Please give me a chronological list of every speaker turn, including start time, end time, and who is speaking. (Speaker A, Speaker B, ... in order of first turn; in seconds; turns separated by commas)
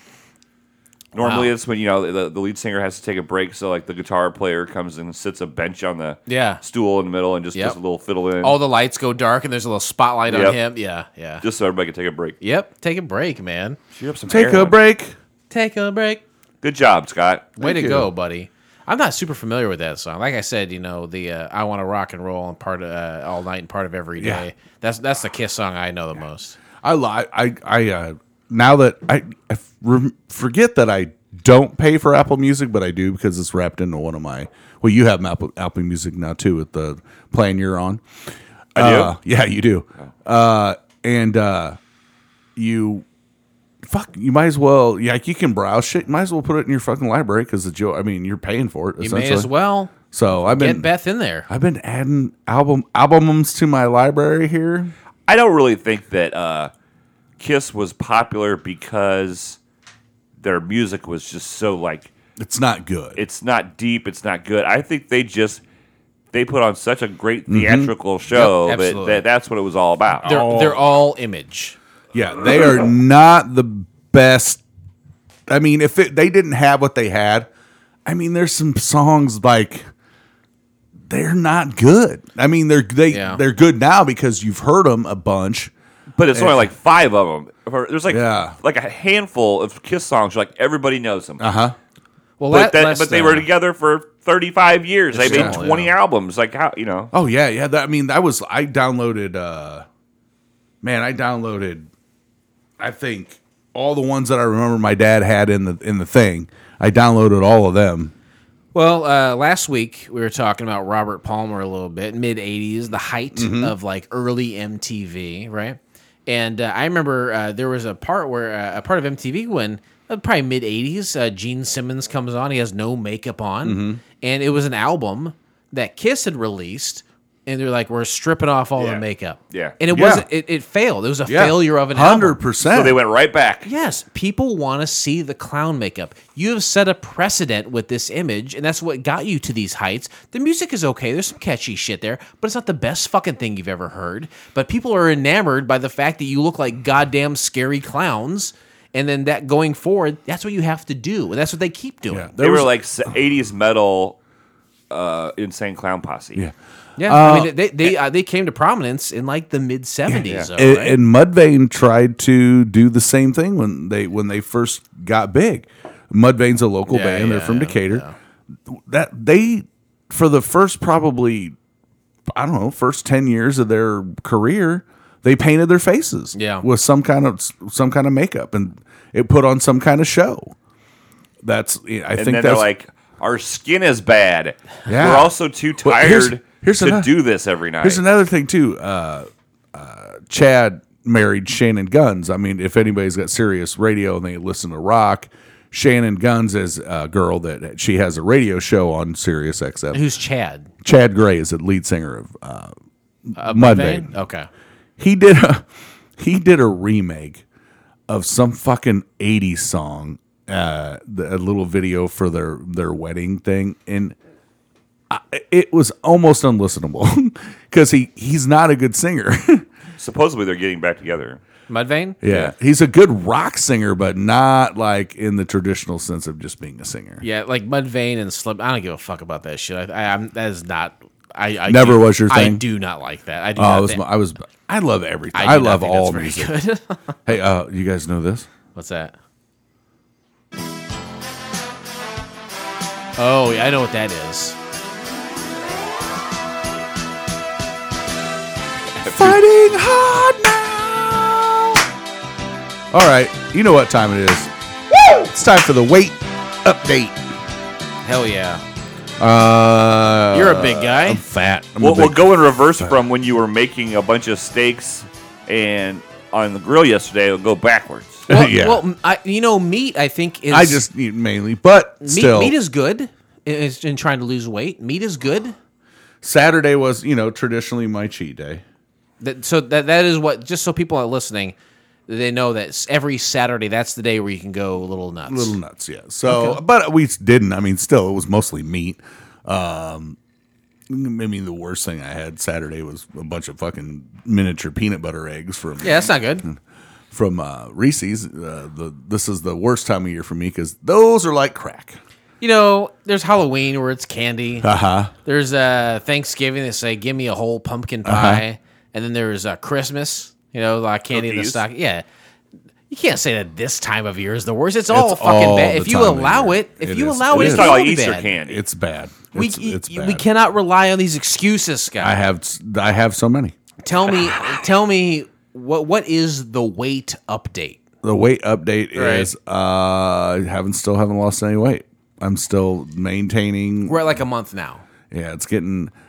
Speaker A: 1.1-8.6, Speaker B: 1.2-1.5, Speaker B: 6.3-6.6, Speaker B: 8.4-11.4, Speaker A: 10.3-10.6, Speaker A: 11.4-12.3, Speaker B: 12.4-13.8, Speaker A: 13.9-14.8, Speaker C: 14.3-15.1, Speaker B: 15.5-16.2, Speaker A: 16.6-17.5, Speaker B: 17.6-26.6, Speaker C: 17.6-18.1, Speaker C: 24.2-24.4, Speaker C: 26.8-38.0, Speaker C: 38.7-41.8, Speaker A: 38.8-39.1, Speaker C: 42.5-43.0, Speaker C: 43.8-49.5, Speaker B: 49.0-51.5, Speaker C: 50.1-50.9, Speaker C: 51.5-54.9, Speaker A: 55.3-56.7, Speaker A: 57.4-59.6, Speaker A: 60.4-62.1, Speaker C: 62.4-63.2, Speaker A: 63.1-65.6, Speaker A: 66.3-70.3, Speaker C: 67.5-67.9, Speaker B: 68.3-69.2, Speaker B: 70.2-71.8, Speaker C: 70.2-70.8, Speaker C: 72.1-74.6, Speaker C: 75.5-77.5, Speaker C: 78.0-79.9, Speaker C: 81.1-85.7, Speaker B: 83.1-83.4, Speaker A: 86.2-91.4, Speaker C: 86.3-86.6, Speaker C: 88.1-88.5, Speaker C: 91.4-91.8, Speaker B: 92.4-93.5, Speaker A: 92.5-97.1, Speaker B: 95.1-95.9, Speaker C: 95.2-95.6, Speaker C: 97.1-99.8, Speaker C: 100.8-101.9, Speaker C: 102.8-108.1, Speaker B: 108.7-132.4, Speaker C: 113.3-113.7, Speaker C: 123.6-124.0, Speaker A: 128.8-129.8, Speaker C: 129.9-130.3, Speaker C: 131.2-133.0, Speaker A: 132.7-133.7, Speaker B: 133.6-152.3, Speaker C: 152.1-152.7, Speaker A: 152.4-154.2, Speaker A: 154.9-156.4, Speaker C: 156.3-157.5, Speaker B: 157.0-161.0, Speaker C: 160.1-168.0, Speaker B: 166.9-168.1, Speaker C: 168.7-171.5, Speaker C: 172.3-180.5, Speaker B: 176.3-176.7, Speaker C: 181.4-182.7, Speaker A: 182.2-188.0, Speaker C: 184.8-187.1, Speaker C: 187.8-200.0, Speaker B: 199.9-200.7, Speaker C: 200.8-202.7, Speaker C: 203.3-204.1, Speaker B: 203.4-204.5, Speaker C: 205.0-207.4, Speaker C: 208.1-214.2, Speaker C: 215.1-219.7, Speaker A: 220.0-221.4, Speaker B: 221.7-222.2, Speaker C: 222.2-227.2, Speaker A: 222.2-222.5, Speaker B: 227.2-234.0, Speaker C: 231.7-232.6, Speaker C: 233.6-236.5, Speaker B: 235.3-237.1, Speaker C: 237.2-238.5, Speaker B: 238.7-239.1, Speaker B: 243.2-244.6, Speaker A: 249.0-249.4, Speaker C: 249.1-251.7, Speaker C: 252.9-254.5, Speaker C: 255.0-257.2, Speaker B: 258.0-258.6, Speaker C: 259.2-263.0, Speaker B: 260.3-261.2, Speaker A: 261.8-268.3, Speaker C: 268.3-268.8, Speaker B: 268.3-270.8, Speaker C: 270.5-272.6, Speaker B: 272.0-275.6, Speaker C: 276.2-278.6, Speaker B: 279.2-281.5, Speaker B: 282.1-285.6, Speaker C: 285.3-290.2, Speaker B: 286.2-286.6, Speaker C: 290.9-296.6, Speaker B: 295.8-296.5, Speaker C: 297.1-302.0, Speaker B: 302.4-304.7, Speaker C: 304.6-305.1, Speaker B: 305.2-312.0, Speaker C: 308.0-308.4, Speaker A: 311.1-311.6, Speaker B: 312.9-318.4, Speaker C: 314.9-317.8, Speaker A: 317.3-318.6, Speaker C: 318.4-320.2, Speaker B: 319.3-322.2, Speaker C: 322.0-323.5, Speaker B: 323.8-327.8, Speaker C: 328.0-334.0, Speaker B: 328.9-329.3, Speaker B: 333.9-334.8, Speaker C: 335.1-335.9